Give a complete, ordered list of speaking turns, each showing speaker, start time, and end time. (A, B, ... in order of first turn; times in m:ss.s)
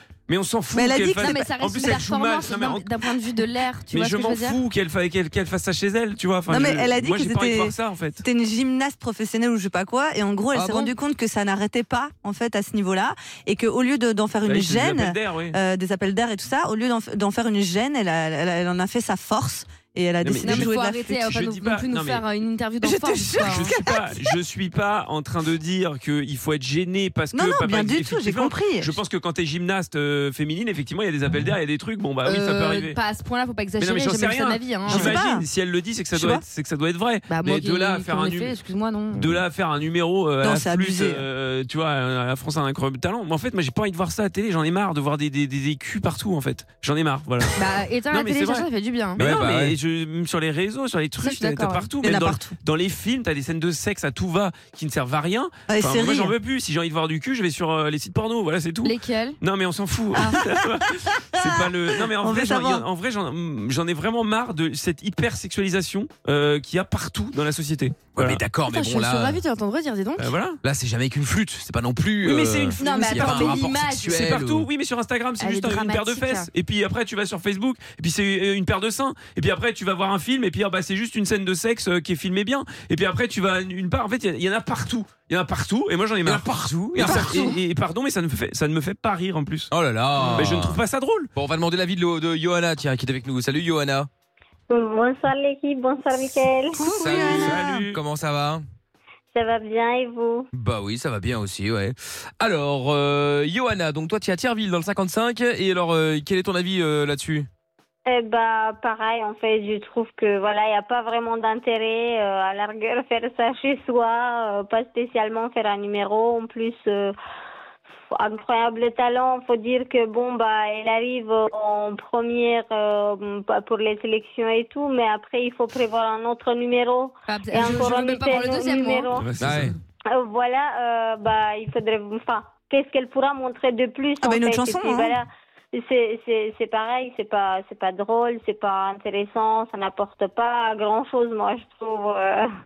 0:00.3-0:02.8 A
0:00.7-0:01.4 B
0:01.2-0:04.6 C
0:03.9-0:08.2 A
0:06.5-0:21.0 B
0:10.5-0:10.9 C
0:14.4-0:15.6 A
0:20.2-0:22.2 A
0:20.4-0:23.7 C
0:22.8-0:24.4 B
0:23.4-0:33.0 A
0:27.3-0:29.0 B
0:32.2-0:35.2 C
0:33.8-0:38.5 A
0:34.9-0:35.4 B
0:36.1-0:36.4 B
0:37.3-0:39.4 C
0:39.1-0:47.6 A
0:40.4-0:41.2 B
0:47.6-0:49.2 C
0:48.1-1:08.4 A
0:49.2-0:49.8 D
0:51.2-0:51.9 C
0:52.0-0:52.5 B
0:55.7-0:56.3 B
0:58.8-0:59.4 C
1:00.1-1:00.8 B
1:01.4-1:02.8 B
1:08.1-1:09.4 D
1:08.7-1:10.3 C
1:10.2-1:10.6 A
1:10.6-1:14.7 D
1:12.2-1:29.7 A
1:12.8-1:14.2 C
1:15.4-1:16.5 C
1:26.2-1:27.4 D
1:27.0-1:27.6 B
1:29.7-1:30.8 D
1:30.3-1:31.3 A
1:31.3-1:34.1 D
1:34.7-1:36.8 E
1:36.7-1:37.8 B
1:36.9-1:38.6 D
1:37.0-1:38.0 A
1:39.3-1:40.5 E
1:40.5-1:47.5 D
1:48.1-1:57.1 E
1:58.1-2:09.2 E
2:07.3-2:09.1 C
2:09.1-2:09.8 A
2:09.4-2:09.7 D
2:10.1-2:22.5 E
2:14.2-2:15.2 B